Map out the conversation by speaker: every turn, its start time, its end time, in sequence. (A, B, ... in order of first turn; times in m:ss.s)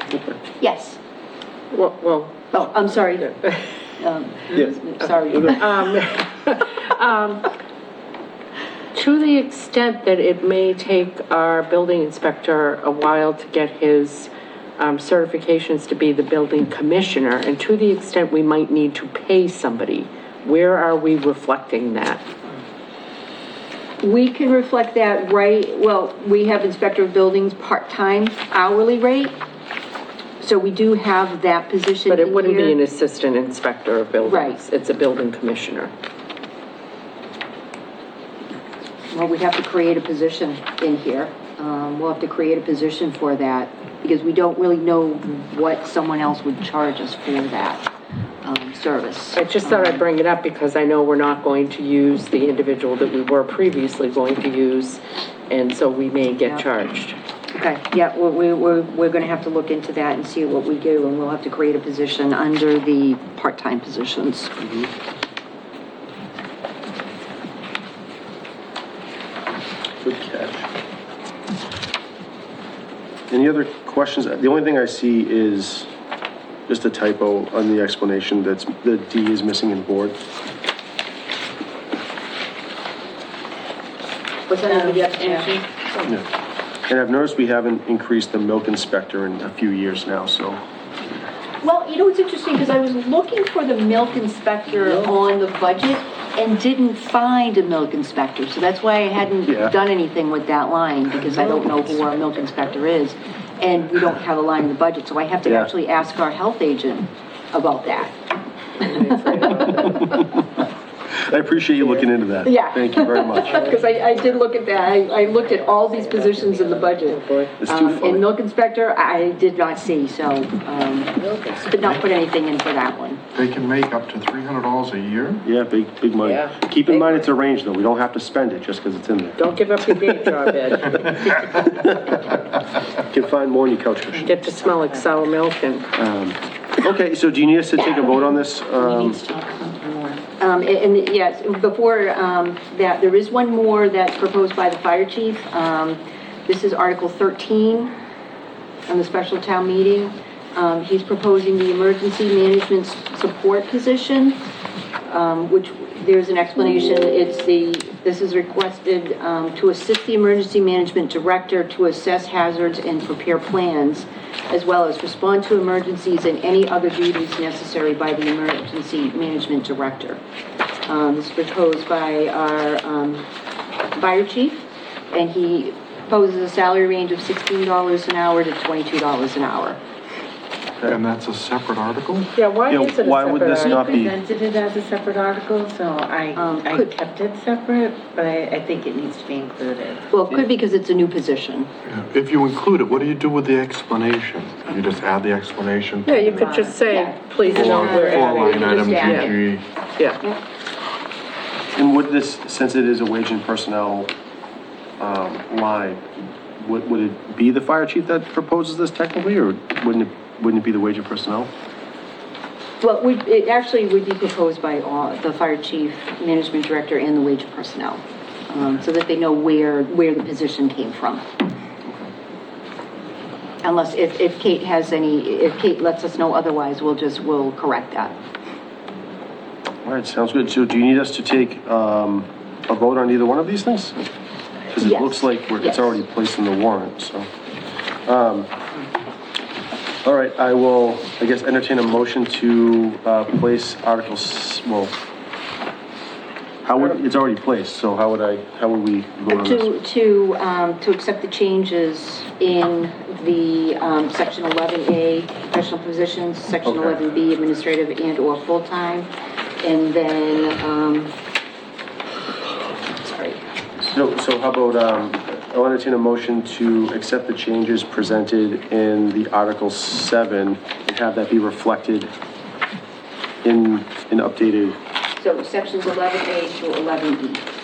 0:00.6-0:01.0 A
0:01.7-0:02.5 B
0:02.5-0:03.4 A
0:04.0-0:05.6 A
0:05.5-0:07.5 B
0:08.9-0:22.2 B
0:24.0-0:29.4 A
0:30.4-0:32.8 A
0:32.1-0:35.9 B
0:34.2-0:34.6 A
0:39.1-0:47.8 A
0:48.4-0:50.0 A
0:49.3-0:57.2 B
0:57.5-1:04.6 A
1:04.6-1:04.9 C
1:10.0-1:10.7 C
1:13.3-1:15.9 C
1:16.7-1:20.2 C
1:24.5-1:26.0 A
1:24.7-1:25.5 D
1:26.9-1:30.6 C
1:31.6-1:48.1 A
1:39.5-1:39.7 C
1:48.8-1:50.3 B
1:48.8-1:50.4 A
1:51.2-1:53.6 C
1:52.4-2:03.2 A
1:53.4-1:54.3 B
1:55.4-1:57.5 B
1:57.6-1:58.2 C
2:01.2-2:01.6 B
2:03.3-2:05.4 E
2:05.4-2:09.4 C
2:06.2-2:07.2 B
2:09.4-2:11.5 B
2:11.6-2:12.3 C
2:13.0-2:14.3 C
2:14.2-2:15.9 B
2:15.9-2:19.2 C
2:18.8-2:20.2 D
2:20.4-2:27.9 A
2:28.9-2:34.4 A
2:35.0-2:50.2 A
2:50.8-2:53.2 A
2:53.9-2:59.8 A
3:00.9-3:02.3 E
3:02.4-3:03.9 B
3:02.7-3:04.2 C
3:03.6-3:10.1 D
3:06.4-3:06.9 A
3:10.1-3:11.7 A
3:11.9-3:16.5 E
3:16.0-3:19.3 B
3:16.1-3:19.5 A
3:16.4-3:16.7 D
3:17.5-3:19.7 E
3:21.7-3:24.1 C
3:25.0-3:26.0 C
3:26.6-3:31.5 C
3:32.8-3:41.3 A
3:43.6-3:48.2 A
3:49.8-3:54.0 C
3:54.7-3:57.3 C
3:54.8-3:56.0 A
3:58.0-3:58.5 C
4:00.0-4:04.9 C
4:06.6-4:09.7 C
4:09.3-4:19.1 A
4:16.6-4:17.0 C
4:19.6-4:21.1 A
4:22.9-4:23.4 A
4:23.9-4:32.1 C
4:33.4-4:34.8 C
4:35.2-4:37.5 A